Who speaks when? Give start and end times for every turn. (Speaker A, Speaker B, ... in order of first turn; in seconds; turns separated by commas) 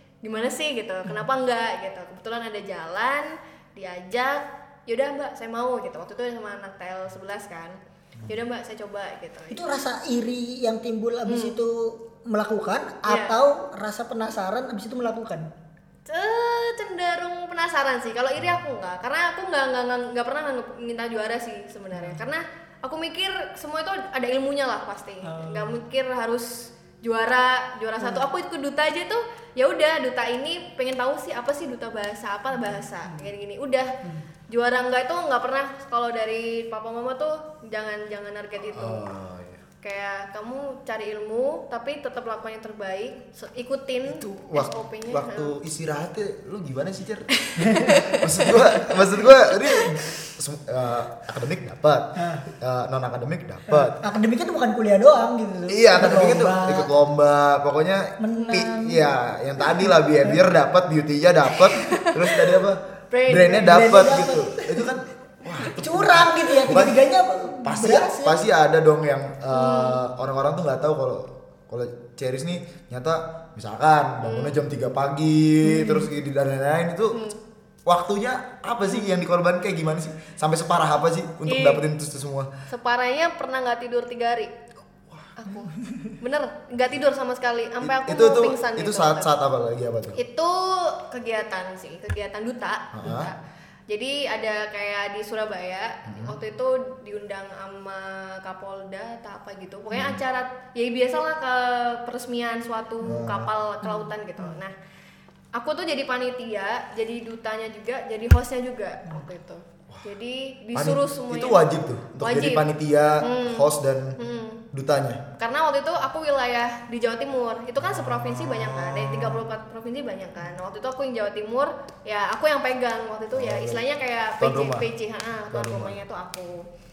Speaker A: 0.2-9.6, Speaker B: 9.5-15.5, Speaker A: 11.3-11.6, Speaker A: 13.1-13.4, Speaker A: 16.1-33.9, Speaker B: 21.9-22.3, Speaker B: 25.2-25.8, Speaker B: 28.0-28.3, Speaker B: 32.5-33.3, Speaker A: 34.5-39.1, Speaker C: 38.7-39.6, Speaker A: 39.8-45.5, Speaker C: 44.1-47.3, Speaker A: 47.4-50.2, Speaker B: 47.6-48.2, Speaker C: 48.2-54.0, Speaker B: 52.2-52.5, Speaker B: 53.7-56.9, Speaker C: 55.7-67.0, Speaker B: 58.2-59.1, Speaker B: 59.6-60.4, Speaker A: 63.1-64.0, Speaker B: 63.5-64.9, Speaker B: 65.7-68.4, Speaker C: 67.6-77.2, Speaker A: 69.5-70.0, Speaker A: 74.2-74.7, Speaker B: 75.6-76.1, Speaker A: 77.1-77.4, Speaker C: 77.9-82.5, Speaker A: 81.5-81.8, Speaker A: 82.7-84.5, Speaker A: 85.4-89.3, Speaker C: 87.8-90.2, Speaker A: 90.2-93.4, Speaker C: 92.9-93.3, Speaker A: 93.9-104.8, Speaker C: 96.1-96.4, Speaker C: 99.9-100.2, Speaker C: 103.0-103.5, Speaker B: 103.8-104.6, Speaker A: 105.5-112.7, Speaker C: 110.7-114.2, Speaker A: 113.2-113.7, Speaker A: 114.2-114.7, Speaker C: 114.7-115.2, Speaker A: 115.4-126.7, Speaker C: 117.8-119.4, Speaker C: 123.3-123.8, Speaker C: 124.4-124.9, Speaker C: 125.5-126.0